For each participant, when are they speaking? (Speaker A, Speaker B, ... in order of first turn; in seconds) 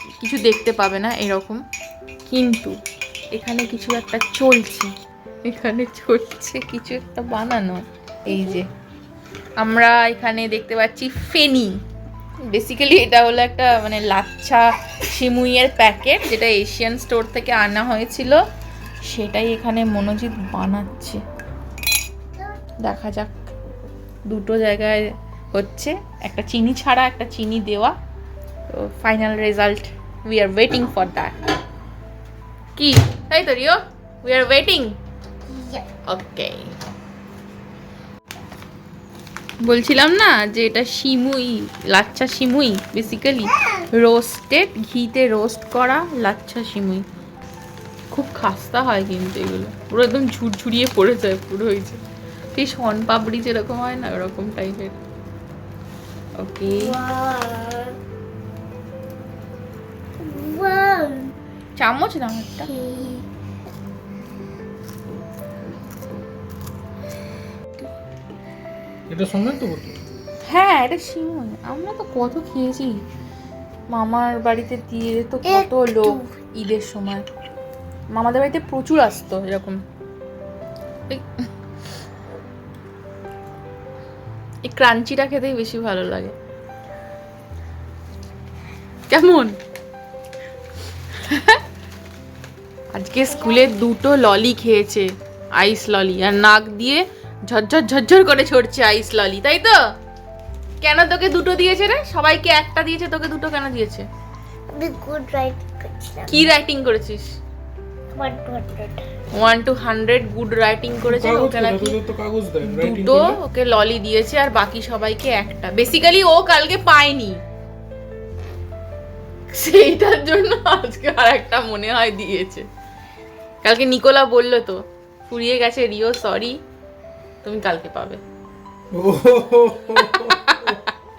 Speaker A: 0.2-1.6, 2.3-2.7, 3.3-4.9, 5.5-8.6, 9.6-11.7, 12.5-18.4, 19.1-21.2, 22.8-23.3, 24.3-27.9, 28.7-31.3, 32.8-34.9, 36.1-36.7, 39.6-47.0, 48.1-52.0, 52.5-55.0, 56.4-57.0, 61.8-62.7, 70.5-73.0, 73.9-77.2, 78.1-79.8, 84.6-86.3, 89.1-89.5, 91.3-91.6, 92.9-99.8, 100.8-104.0, 106.3-107.2, 109.3-112.0, 112.6-117.4, 119.5-122.6, 123.6-126.6, 127.4-128.2, 130.1-130.6
Speaker B: 8.3-8.6, 35.5-35.9, 56.7-58.0, 60.2-61.3, 62.6-63.2, 75.4-76.3, 104.7-106.5, 108.1-109.0
Speaker C: 69.1-70.0, 111.0-113.4, 128.9-130.8